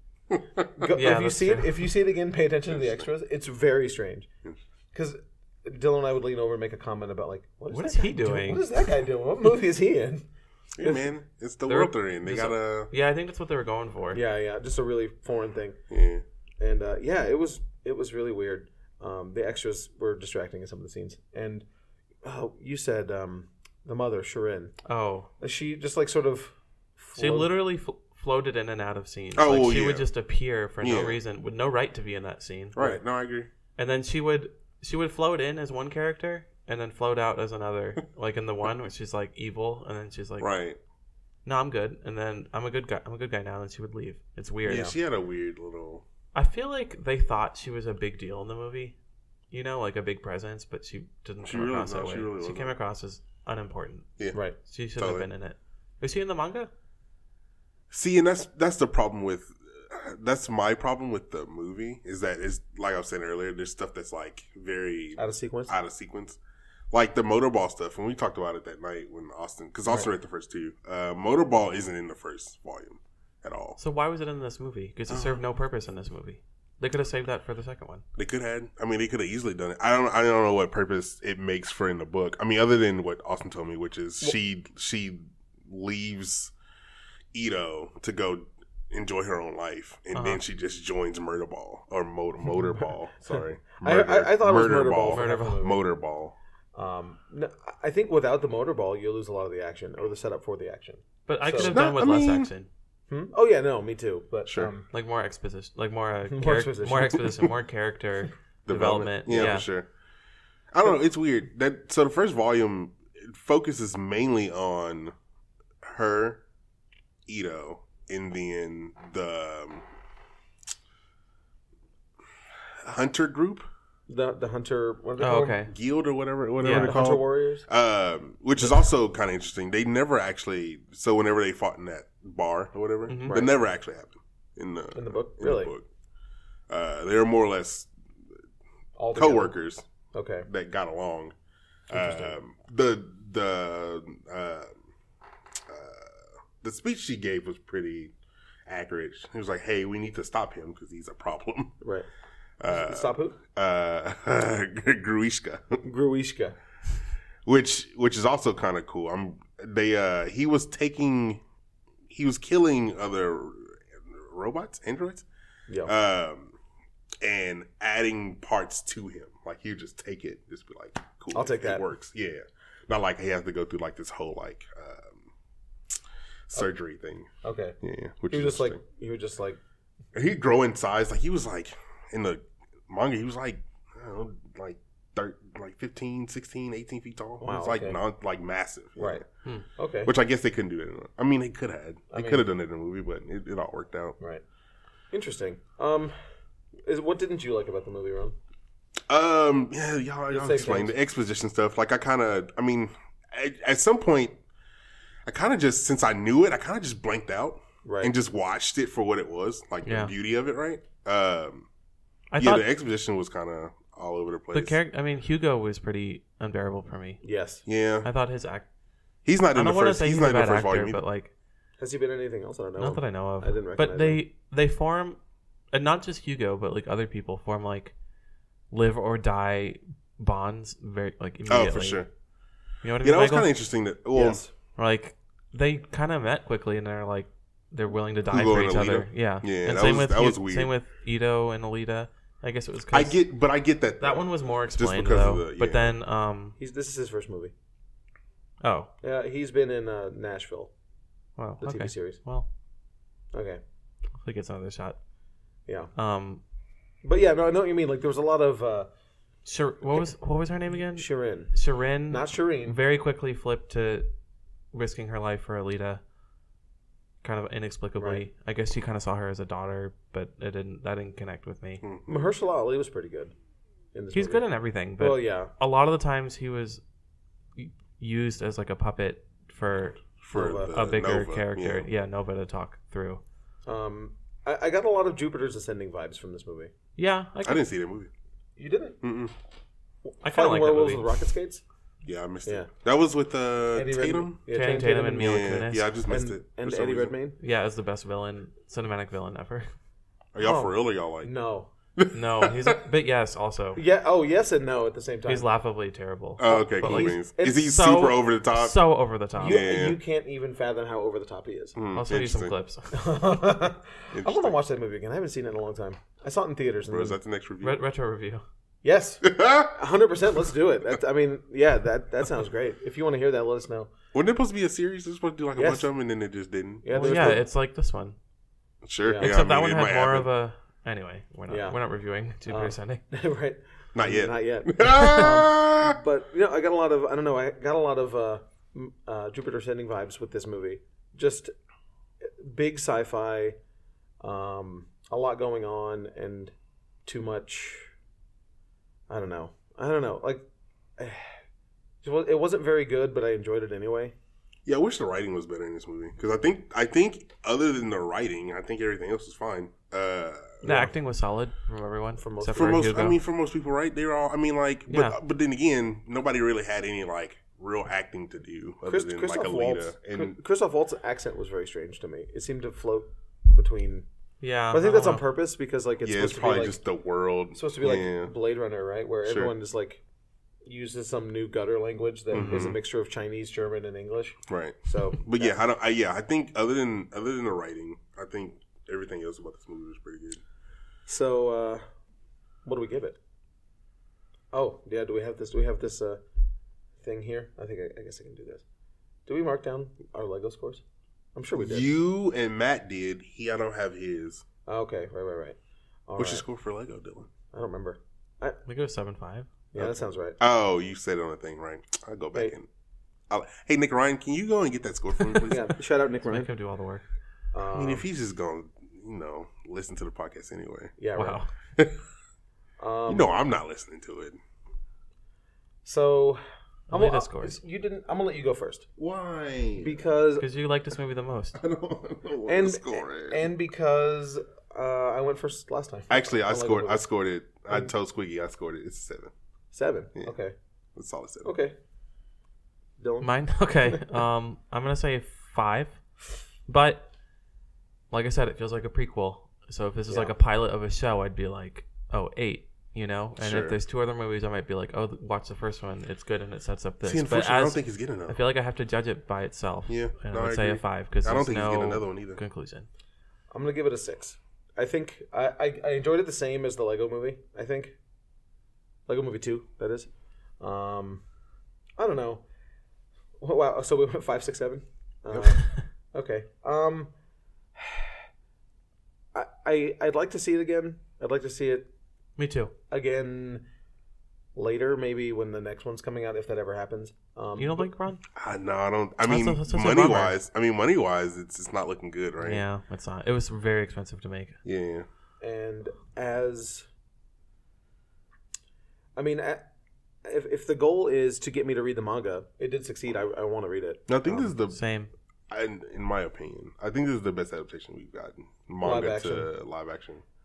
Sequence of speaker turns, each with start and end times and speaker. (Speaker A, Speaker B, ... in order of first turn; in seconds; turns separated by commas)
Speaker A: 0.3-0.7, Speaker B: 0.8-4.3, Speaker C: 0.9-1.8, Speaker A: 2.7-3.1, Speaker B: 4.9-10.3, Speaker C: 7.7-8.6, Speaker A: 10.8-12.9, Speaker B: 10.8-11.1, Speaker C: 11.7-14.2, Speaker B: 14.1-15.8, Speaker A: 15.9-16.2, Speaker B: 16.6-21.7, Speaker B: 22.2-24.7, Speaker C: 24.9-25.3, Speaker B: 25.4-27.5, Speaker C: 27.2-32.8, Speaker A: 29.4-30.1, Speaker A: 30.8-31.2, Speaker A: 32.8-33.5, Speaker B: 32.8-33.0, Speaker C: 33.8-40.5, Speaker A: 40.4-40.8, Speaker C: 41.5-44.9, Speaker A: 44.7-46.0, Speaker C: 46.3-49.0, Speaker C: 49.5-54.1, Speaker A: 51.4-52.7, Speaker C: 54.6-56.7, Speaker A: 55.0-55.3, Speaker A: 57.9-66.4, Speaker B: 65.2-65.7, Speaker A: 66.9-73.8, Speaker C: 73.8-78.0, Speaker A: 75.1-75.4, Speaker A: 78.2-86.5, Speaker A: 87.3-96.3, Speaker C: 90.2-90.4, Speaker B: 93.2-95.8, Speaker C: 95.1-95.6, Speaker B: 96.8-101.8, Speaker C: 101.3-102.7, Speaker A: 101.6-102.5, Speaker B: 103.1-104.9, Speaker A: 104.5-104.7, Speaker C: 104.9-109.7, Speaker B: 106.3-107.3, Speaker A: 108.7-109.9, Speaker A: 110.7-115.1, Speaker A: 115.8-116.4, Speaker A: 117.3-119.8, Speaker A: 122.8-123.7, Speaker B: 124.1-125.7, Speaker C: 125.2-125.7, Speaker A: 125.7-135.8, Speaker C: 126.6-127.0, Speaker B: 126.7-127.7, Speaker C: 133.1-133.4, Speaker B: 134.9-135.7, Speaker A: 136.7-137.9, Speaker B: 139.0-139.6, Speaker A: 139.2-139.8, Speaker B: 140.1-140.5, Speaker A: 140.5-141.3, Speaker A: 141.9-144.7, Speaker B: 141.9-142.4, Speaker A: 145.7-148.1, Speaker A: 148.7-151.8, Speaker B: 151.8-152.1, Speaker A: 152.6-155.8, Speaker B: 152.7-153.4, Speaker B: 155.8-156.6, Speaker A: 157.5-161.4, Speaker A: 162.1-165.2, Speaker A: 165.9-166.5, Speaker A: 167.2-175.3, Speaker B: 171.3-171.8, Speaker A: 176.5-177.3, Speaker B: 177.4-177.8, Speaker A: 177.8-178.8, Speaker B: 178.3-179.6, Speaker A: 180.1-189.2, Speaker B: 187.4-188.0, Speaker B: 189.0-189.2, Speaker B: 189.8-190.1, Speaker A: 190.1-194.2, Speaker B: 192.1-192.4, Speaker B: 195.1-196.1, Speaker B: 196.8-198.4, Speaker A: 199.1-204.4, Speaker B: 200.3-200.9, Speaker A: 205.3-211.7, Speaker B: 207.8-208.1, Speaker C: 209.8-210.1, Speaker C: 212.3-212.7, Speaker A: 212.4-214.8, Speaker C: 214.5-217.2, Speaker B: 217.2-217.7, Speaker A: 217.7-218.1, Speaker C: 218.0-218.7, Speaker A: 219.2-221.0, Speaker C: 219.5-221.3, Speaker B: 221.8-224.2, Speaker C: 222.8-225.2, Speaker C: 225.7-227.9, Speaker C: 228.7-232.0, Speaker A: 231.5-232.1, Speaker C: 232.8-233.5, Speaker A: 233.0-234.4, Speaker B: 234.1-234.5, Speaker C: 234.8-243.2, Speaker A: 238.3-240.7, Speaker A: 242.9-245.9, Speaker C: 244.0-246.6, Speaker B: 246.6-247.5, Speaker C: 248.6-248.9, Speaker B: 249.0-250.7, Speaker C: 251.4-252.5, Speaker B: 251.6-252.2, Speaker B: 253.3-253.6, Speaker C: 254.2-255.0, Speaker C: 255.9-256.4, Speaker B: 257.0-258.9, Speaker C: 259.5-264.1, Speaker B: 260.8-261.6, Speaker B: 262.1-262.8, Speaker C: 264.7-266.0, Speaker C: 267.2-271.8, Speaker B: 268.0-268.2, Speaker A: 271.8-272.3, Speaker B: 272.1-273.3, Speaker B: 273.9-274.5, Speaker C: 274.1-276.8, Speaker B: 275.0-275.5, Speaker C: 277.6-283.2, Speaker A: 280.2-281.9, Speaker B: 280.3-280.8, Speaker B: 283.6-286.7, Speaker C: 287.0-287.6, Speaker A: 287.4-288.1, Speaker B: 288.6-289.0, Speaker A: 289.0-289.3, Speaker B: 290.1-291.6, Speaker C: 290.2-291.1, Speaker A: 292.0-294.4, Speaker B: 293.7-297.4, Speaker C: 294.5-295.9, Speaker A: 295.2-297.1, Speaker C: 297.4-299.7, Speaker A: 300.3-301.3, Speaker B: 300.4-301.7, Speaker A: 302.0-302.8, Speaker C: 302.1-303.8, Speaker B: 303.8-305.5, Speaker C: 305.3-309.6, Speaker A: 306.4-308.8, Speaker B: 306.5-307.7, Speaker B: 309.4-311.8, Speaker A: 309.4-310.0, Speaker A: 311.8-312.5, Speaker C: 311.9-312.9, Speaker B: 312.9-317.2, Speaker A: 314.1-314.6, Speaker A: 316.9-317.8, Speaker C: 317.6-318.4, Speaker B: 318.8-323.9, Speaker A: 319.2-319.8, Speaker A: 324.1-327.4, Speaker B: 325.6-325.9, Speaker B: 326.9-327.4, Speaker C: 326.9-328.2, Speaker A: 328.8-330.3, Speaker B: 329.1-329.4, Speaker C: 329.2-333.0, Speaker B: 331.5-331.8, Speaker B: 332.5-341.5, Speaker A: 333.9-336.0, Speaker B: 342.2-343.6, Speaker B: 344.2-346.5, Speaker B: 347.1-347.9, Speaker B: 349.1-350.4, Speaker B: 351.0-351.4, Speaker B: 352.0-354.1, Speaker A: 354.7-360.6, Speaker B: 360.6-360.9, Speaker C: 360.6-363.2, Speaker B: 362.2-363.0, Speaker A: 362.5-370.4, Speaker C: 364.9-365.2, Speaker B: 368.9-374.1, Speaker C: 374.4-375.2, Speaker B: 374.7-376.8, Speaker A: 376.0-378.3, Speaker B: 377.5-380.0, Speaker A: 379.2-379.5, Speaker B: 380.6-385.6, Speaker A: 382.3-382.8, Speaker A: 384.5-390.4, Speaker B: 391.1-391.9, Speaker B: 392.6-393.2, Speaker B: 394.5-396.2, Speaker B: 397.0-398.6, Speaker B: 399.3-400.8, Speaker B: 401.4-401.9, Speaker A: 401.6-404.4, Speaker B: 404.7-406.4, Speaker A: 406.2-407.3, Speaker B: 407.5-408.6, Speaker C: 408.7-409.5, Speaker B: 409.7-410.4, Speaker A: 409.8-412.7, Speaker A: 413.3-415.7, Speaker B: 415.5-416.5, Speaker C: 416.2-417.0, Speaker B: 417.5-418.1, Speaker A: 417.7-420.9, Speaker B: 421.0-421.4, Speaker C: 421.1-421.5, Speaker B: 422.8-423.3, Speaker A: 423.1-424.4, Speaker B: 425.9-428.9, Speaker C: 426.9-427.6, Speaker A: 429.0-430.0, Speaker B: 429.8-430.5, Speaker C: 430.4-431.6, Speaker A: 431.6-433.5, Speaker B: 432.5-437.0, Speaker A: 436.1-439.3, Speaker B: 439.7-440.6, Speaker A: 441.0-441.5, Speaker B: 441.4-441.8, Speaker B: 443.0-443.3, Speaker C: 443.2-446.0, Speaker C: 446.7-447.1, Speaker C: 448.1-462.9, Speaker A: 453.4-453.8, Speaker A: 457.0-458.4, Speaker A: 459.9-462.4, Speaker B: 463.5-468.0, Speaker B: 469.1-470.1, Speaker B: 470.6-471.2, Speaker B: 472.0-472.4, Speaker B: 473.4-477.1, Speaker B: 477.8-478.1, Speaker B: 479.3-481.9, Speaker C: 482.4-482.7, Speaker B: 482.9-483.6, Speaker B: 484.6-487.9, Speaker C: 487.6-488.2, Speaker A: 488.4-492.6, Speaker C: 489.2-490.4, Speaker C: 492.4-494.6, Speaker A: 494.6-495.1, Speaker B: 495.4-496.9, Speaker B: 499.2-499.7, Speaker B: 500.2-504.5, Speaker A: 504.1-504.8, Speaker C: 504.7-505.1, Speaker A: 505.5-510.2, Speaker B: 508.8-509.5